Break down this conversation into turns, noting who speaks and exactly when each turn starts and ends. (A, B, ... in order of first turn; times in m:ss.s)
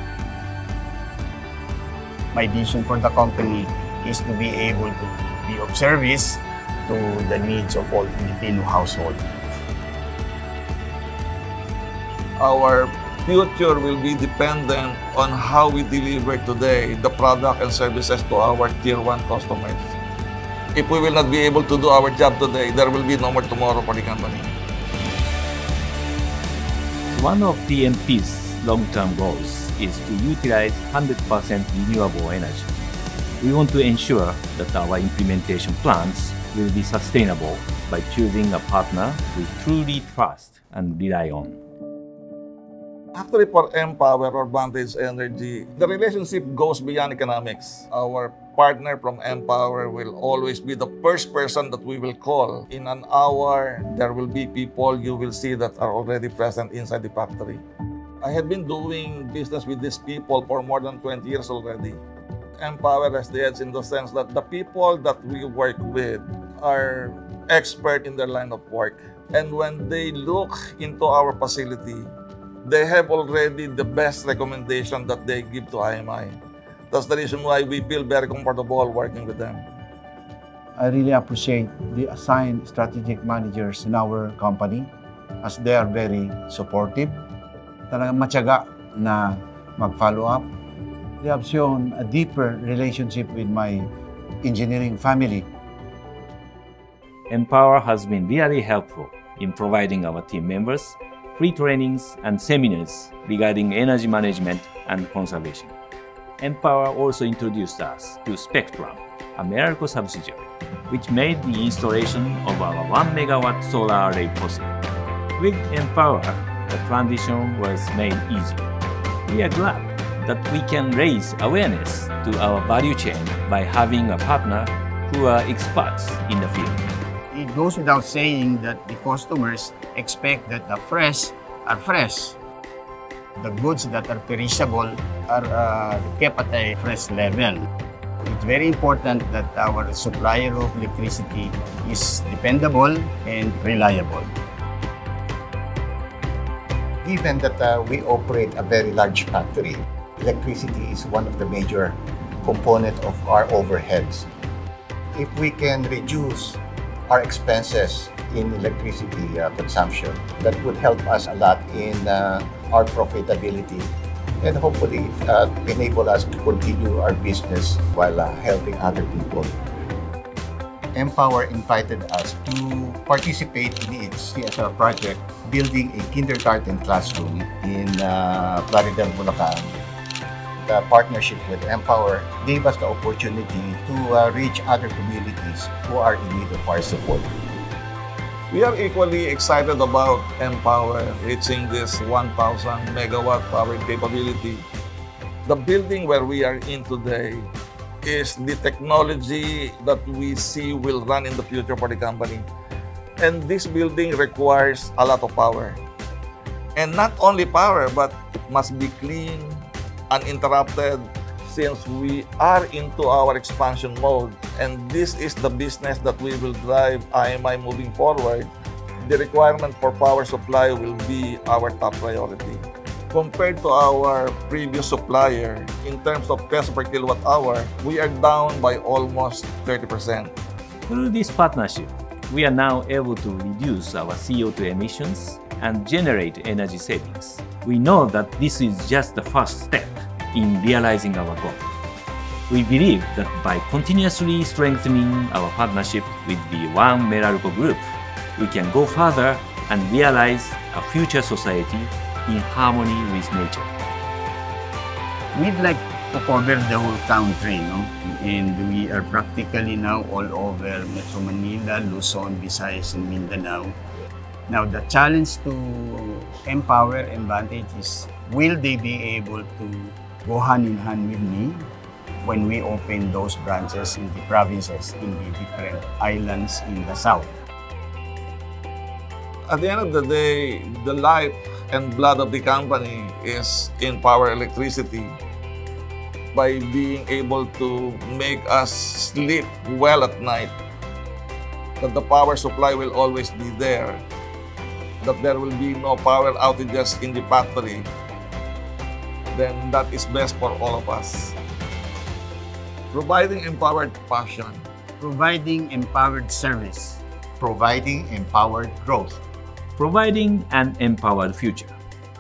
0:02.3-0:09.2 A
0:12.4-0:20.0 B
0:20.8-0:24.5 B
0:27.1-0:32.7 C
0:33.4-0:41.6 C
0:43.2-0:57.6 B
0:58.2-1:02.0 B
1:02.6-1:12.1 B
1:12.6-1:16.4 B
1:16.9-1:19.6 B
1:20.8-1:24.9 D
1:25.4-1:27.2 D
1:27.9-1:30.5 D
1:31.2-1:33.9 D
1:34.4-1:35.5 D
1:37.3-1:45.7 C
1:46.4-1:54.7 C
1:55.4-1:58.7 C
1:59.3-2:06.8 C
2:07.3-2:12.4 A
2:13.4-2:17.6 A
2:18.2-2:24.3 A
2:27.0-2:34.3 E
2:35.2-2:43.9 E
2:44.4-2:49.6 E
2:50.9-2:59.8 E
3:00.6-3:07.6 E
3:08.5-3:14.6 B
3:15.5-3:17.5 B
3:18.0-3:22.5 B
3:23.2-3:25.8 B
3:26.8-3:38.5 B
3:39.0-3:50.3 B
3:50.9-4:01.6 C
4:02.5-4:13.7 C
4:15.3-4:23.8 A
4:24.5-4:31.7 A
4:32.2-4:37.3 A
4:39.5-4:45.2 B
4:46.3-4:50.5 B
4:51.8-4:54.0 B
4:55.0-4:57.9 B
4:59.3-5:01.4 B
5:02.9-5:04.6 B
5:05.0-5:07.0 A
5:07.4-5:09.2 E
5:09.8-5:11.8 C